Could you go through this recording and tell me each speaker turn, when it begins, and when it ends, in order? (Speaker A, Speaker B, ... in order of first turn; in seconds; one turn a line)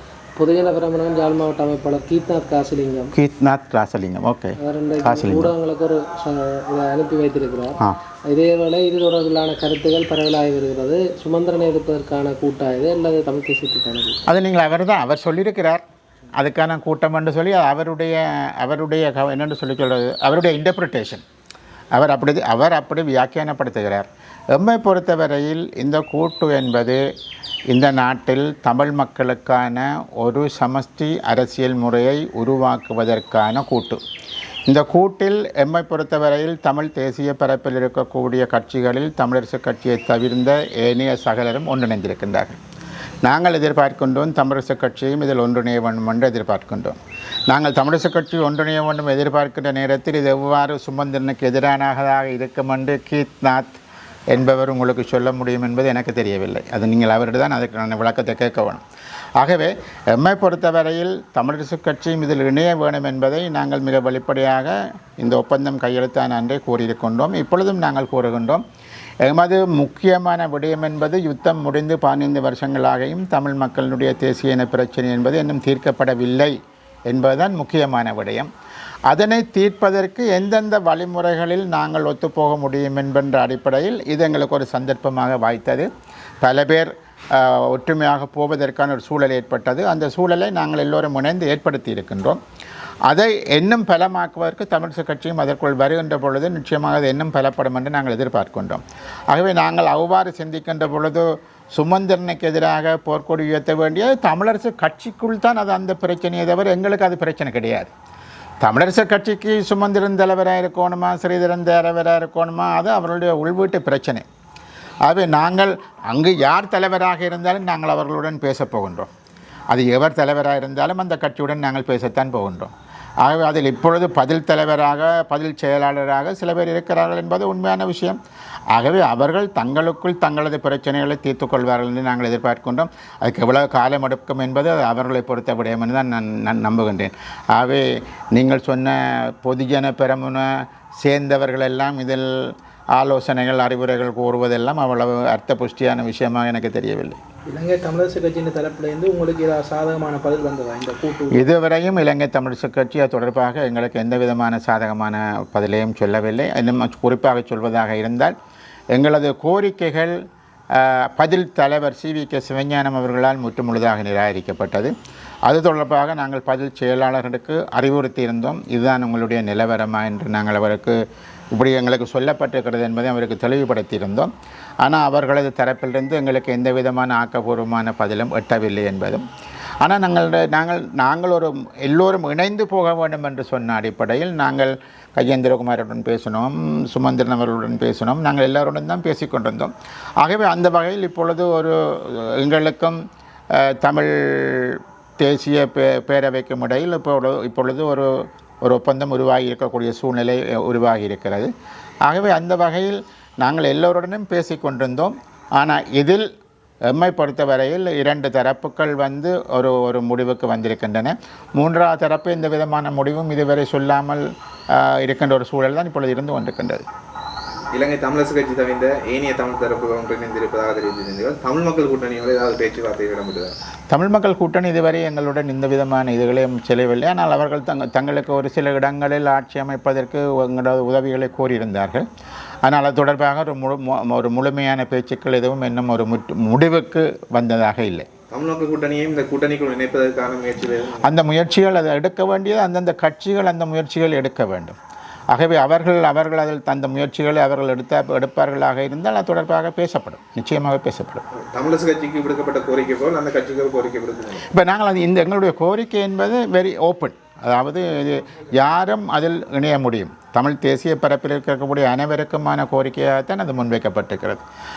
Speaker A: 0.4-3.1
Speaker B: 3.1-5.5
Speaker A: 4.6-7.8
Speaker A: 8.3-14.2
Speaker B: 14.3-15.8
Speaker B: 16.4-21.2
Speaker B: 21.9-27.0
Speaker B: 27.7-34.0
Speaker B: 34.7-42.6
Speaker B: 43.2-47.0
Speaker B: 47.5-53.8
Speaker B: 54.3-58.8
Speaker B: 59.4-68.6
Speaker B: 69.2-76.5
Speaker B: 77.1-78.5
Speaker B: 79.1-85.9
Speaker B: 86.4-92.4
Speaker B: 93.1-107.9
Speaker B: 108.6-114.2
Speaker B: 115.0-119.1
Speaker B: 119.7-122.7
Speaker B: 123.2-128.2
Speaker B: 128.7-142.3
Speaker B: 142.9-147.2
Speaker C: 147.5-151.5
Speaker B: 151.3-158.3
Speaker B: 158.9-160.2
Speaker B: 160.7-164.9
Speaker B: 165.5-171.0
Speaker B: 171.5-174.3
Speaker B: 174.8-179.2
Speaker B: 179.8-193.0
Speaker B: 193.6-198.1
Speaker B: 198.6-201.5
Speaker B: 202.1-206.2
Speaker B: 206.9-214.2
Speaker B: 214.8-216.8
Speaker D: 217.7-223.5
Speaker B: 223.9-232.0
Speaker B: 232.6-238.1
Speaker D: 238.3-241.1
Speaker B: 241.0-244.8
Speaker B: 245.3-251.2
Speaker D: 251.4-254.4
Speaker B: 254.5-264.4